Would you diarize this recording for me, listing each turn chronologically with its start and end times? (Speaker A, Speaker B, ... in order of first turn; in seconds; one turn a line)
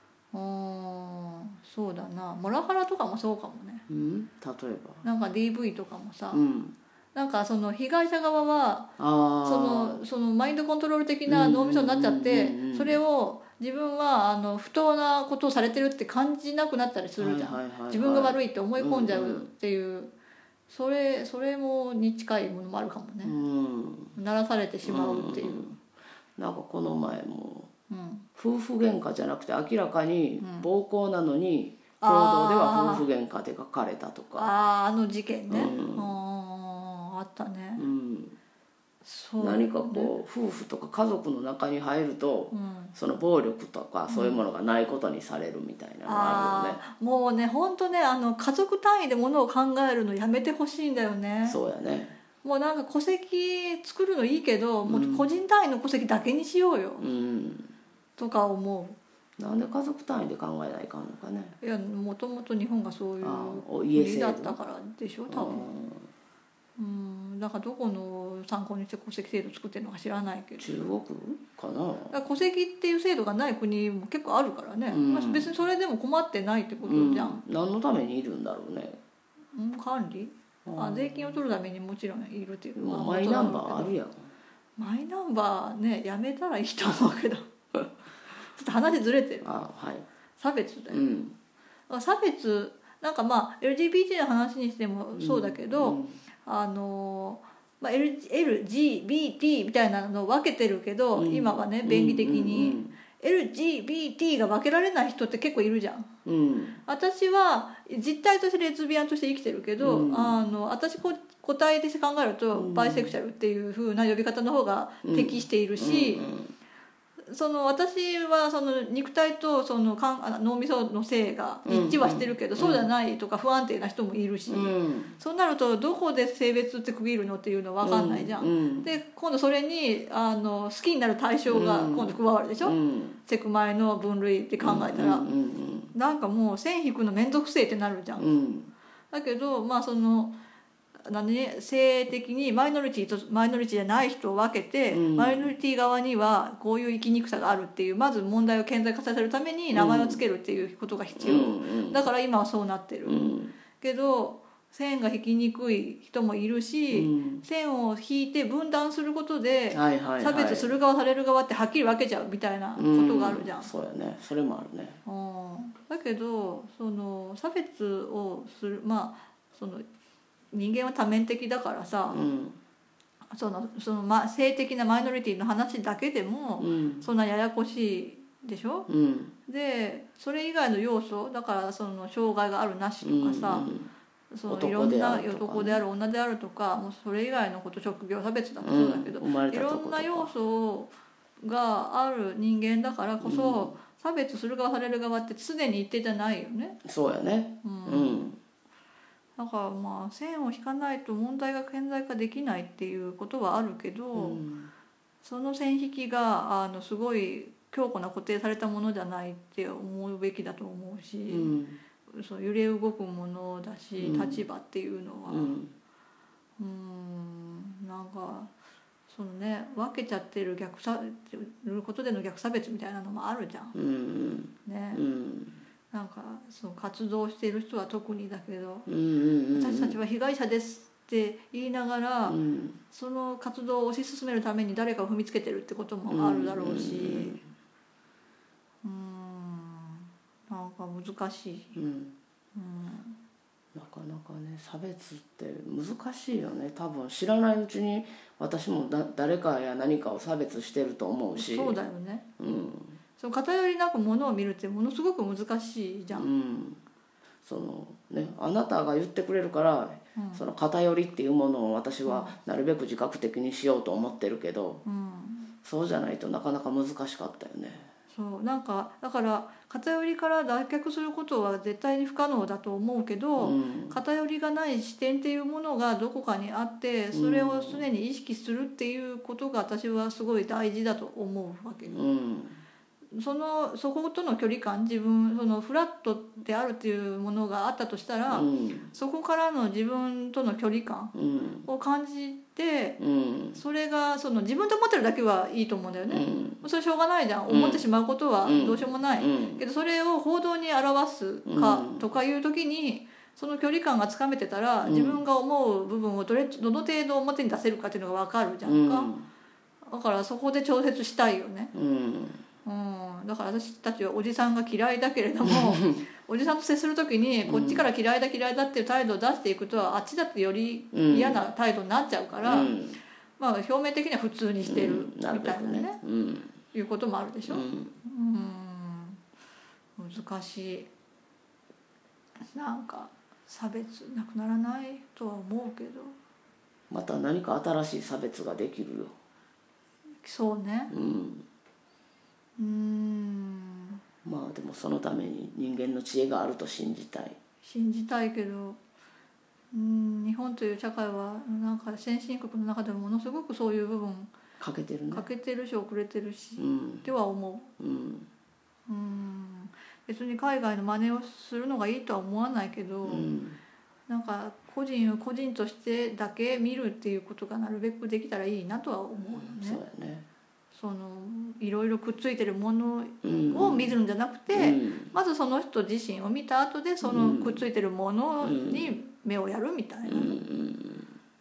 Speaker A: 0.3-3.8
Speaker B: 3.9-5.0
Speaker A: 5.0-6.4
Speaker B: 6.3-6.8
Speaker A: 7.1-8.9
Speaker B: 9.0-10.0
Speaker A: 9.4-20.1
Speaker B: 11.3-13.0
Speaker B: 17.2-19.5
Speaker A: 20.7-23.3
Speaker B: 23.2-24.1
Speaker A: 24.1-25.7
Speaker B: 24.9-25.8
Speaker B: 26.4-27.7
Speaker A: 27.9-28.2
Speaker B: 28.4-34.5
Speaker A: 30.4-30.7
Speaker A: 32.0-33.1
Speaker A: 34.4-37.8
Speaker B: 35.5-36.2
Speaker B: 37.8-38.4
Speaker A: 39.0-40.1
Speaker B: 39.4-46.8
Speaker A: 42.5-42.9
Speaker A: 44.1-44.4
Speaker A: 46.0-51.6
Speaker B: 51.4-52.1
Speaker A: 52.4-57.1
Speaker B: 54.8-55.3
Speaker B: 57.0-57.7
Speaker A: 58.2-59.0
Speaker B: 59.4-61.5
Speaker A: 61.6-65.8
Speaker B: 63.2-64.6
Speaker B: 65.3-66.1
Speaker A: 66.8-70.9
Speaker B: 70.6-72.2
Speaker A: 72.1-77.4
Speaker B: 74.9-75.5
Speaker B: 76.8-79.0
Speaker A: 79.5-83.9
Speaker B: 80.6-81.4
Speaker B: 82.8-84.3
Speaker A: 84.8-87.5
Speaker A: 88.4-89.6
Speaker B: 89.4-90.0
Speaker A: 90.4-91.0
Speaker B: 90.9-91.3
Speaker A: 91.9-106.1
Speaker B: 95.2-96.2
Speaker B: 101.1-102.9
Speaker B: 106.2-106.8
Speaker A: 106.9-116.3
Speaker B: 109.8-110.4
Speaker B: 112.5-113.1
Speaker B: 115.0-116.5
Speaker A: 117.3-135.3
Speaker B: 121.7-122.9
Speaker B: 124.5-125.2
Speaker B: 127.8-128.9
Speaker B: 131.5-133.2
Speaker B: 134.6-135.9
Speaker A: 135.9-138.3
Speaker B: 138.2-138.7
Speaker A: 139.1-140.3
Speaker A: 141.1-163.7
Speaker B: 144.9-145.5
Speaker B: 149.7-150.2
Speaker B: 151.2-152.0
Speaker B: 153.0-153.5
Speaker B: 156.9-157.4
Speaker B: 159.7-160.8
Speaker B: 162.8-165.0
Speaker A: 165.1-169.8
Speaker A: 170.5-172.2
Speaker B: 172.1-172.6
Speaker A: 173.3-178.9
Speaker B: 176.6-177.1
Speaker B: 178.9-179.3
Speaker A: 179.5-183.7
Speaker B: 183.0-183.9
Speaker A: 184.3-196.8
Speaker B: 184.5-185.8
Speaker B: 188.6-190.3
Speaker B: 193.2-193.7
Speaker B: 196.8-198.4
Speaker A: 197.6-198.3
Speaker A: 199.4-204.4
Speaker B: 204.1-204.7
Speaker A: 205.2-211.5
Speaker B: 211.3-211.8
Speaker A: 212.1-215.6
Speaker B: 214.0-214.4
Speaker B: 215.3-215.7
Speaker A: 216.6-218.5
Speaker A: 219.1-223.7
Speaker B: 223.7-225.6
Speaker A: 224.6-225.0
Speaker A: 225.9-228.9
Speaker B: 228.9-230.0
Speaker A: 229.5-232.4
Speaker B: 232.3-232.8
Speaker A: 232.9-237.4
Speaker B: 236.1-237.4
Speaker A: 238.8-241.8
Speaker B: 241.7-242.1
Speaker A: 242.5-243.2
Speaker B: 243.7-251.8
Speaker A: 251.3-252.2
Speaker B: 252.4-253.0
Speaker A: 253.2-256.3
Speaker B: 256.1-256.8
Speaker B: 257.4-264.8
Speaker A: 260.1-260.4
Speaker A: 262.1-262.4
Speaker A: 264.8-265.5
Speaker B: 265.6-267.9
Speaker A: 268.1-282.0
Speaker B: 273.4-274.0
Speaker B: 277.1-277.9
Speaker B: 281.9-282.6
Speaker A: 283.1-291.1
Speaker B: 288.3-288.9
Speaker B: 291.1-291.6
Speaker A: 291.6-293.0
Speaker B: 293.0-293.6
Speaker A: 293.5-309.1
Speaker B: 296.1-296.6
Speaker B: 297.5-297.8
Speaker B: 298.4-299.6
Speaker B: 301.4-302.1
Speaker B: 304.8-305.2
Speaker B: 308.6-309.3
Speaker A: 309.9-311.7
Speaker B: 311.7-312.4
Speaker A: 312.6-322.8
Speaker B: 315.4-316.0
Speaker B: 317.4-317.9
Speaker B: 320.9-321.4
Speaker B: 322.4-323.0
Speaker A: 323.4-326.0
Speaker B: 324.6-326.6
Speaker A: 326.7-329.2
Speaker B: 327.4-327.9
Speaker A: 330.0-330.9
Speaker A: 332.5-336.1
Speaker B: 336.9-339.1
Speaker A: 340.2-340.9
Speaker B: 340.9-341.4
Speaker A: 342.6-344.0
Speaker B: 344.2-347.4
Speaker A: 347.6-348.8
Speaker A: 349.7-354.3
Speaker B: 354.6-355.2
Speaker A: 355.1-357.7
Speaker B: 356.6-357.1
Speaker B: 357.8-358.3
Speaker A: 358.9-363.3
Speaker B: 363.0-363.6
Speaker A: 364.1-369.8
Speaker B: 369.4-370.2
Speaker A: 370.7-380.4
Speaker B: 373.2-374.0
Speaker B: 374.5-375.1
Speaker B: 377.0-377.6
Speaker B: 378.4-378.9
Speaker B: 380.1-381.1